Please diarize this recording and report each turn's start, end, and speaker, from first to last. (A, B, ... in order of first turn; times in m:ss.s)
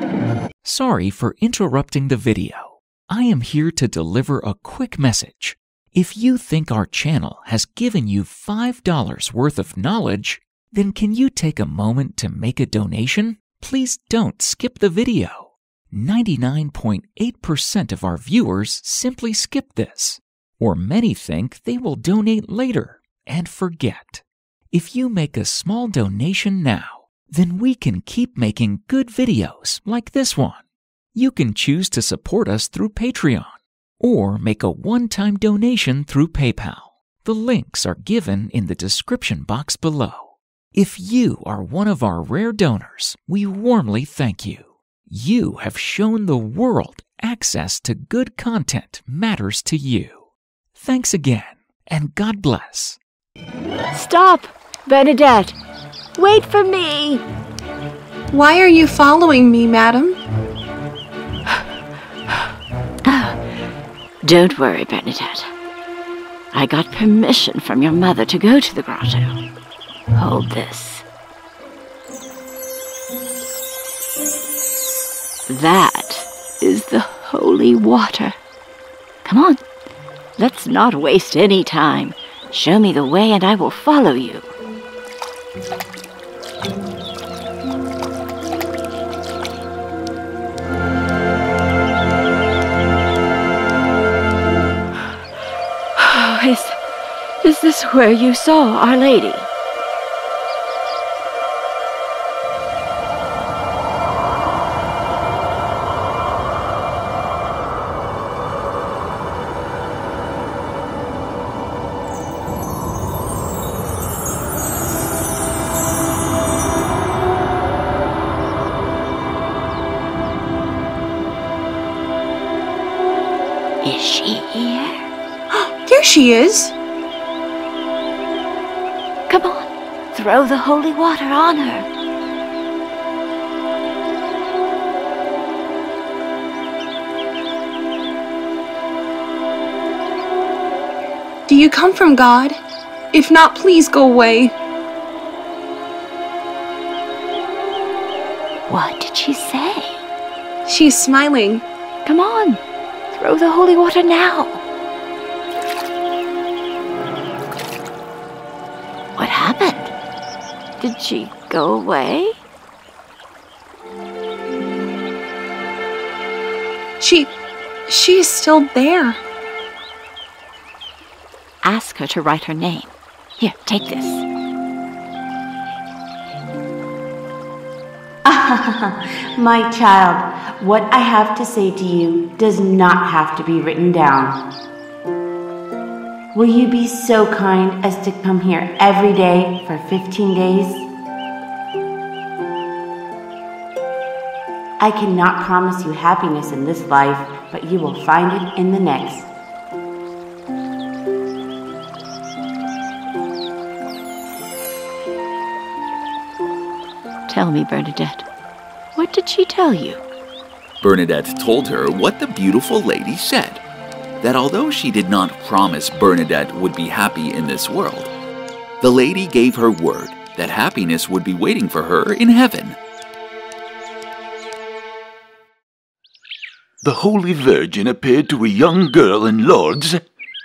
0:00.6-0:30.6 A
0:31.1-0:53.0 A
0:53.9-0:55.5 B
0:56.2-0:57.2 B
0:58.3-1:00.2 C
1:03.0-1:03.4 B
1:04.2-1:05.5 B
1:06.5-1:09.4 B
1:10.1-1:11.0 B
1:15.5-1:18.4 B
1:19.2-1:19.6 B
1:20.4-1:24.5 B
1:36.0-1:36.8 B
1:37.4-1:39.5 B
2:03.8-2:05.0 B
2:05.5-2:06.7 C
2:09.3-2:11.9 B
2:21.5-2:22.6 C
2:23.1-2:24.5 C
2:28.7-2:30.0 B
2:30.6-2:31.6 C
2:32.0-2:32.6 B
2:33.1-2:34.6 B
2:39.2-2:39.9 B
2:40.8-2:42.4 B
2:47.0-2:47.3 C
2:47.9-2:49.2 C
2:51.6-2:54.2 B
2:58.2-3:04.4 D
3:06.3-3:10.8 D
3:14.8-3:19.3 D
3:27.3-3:28.2 B
3:28.9-3:30.0 B
3:30.8-3:33.6 E
3:34.2-3:38.1 E
3:38.8-3:42.8 E
3:46.8-3:50.0 F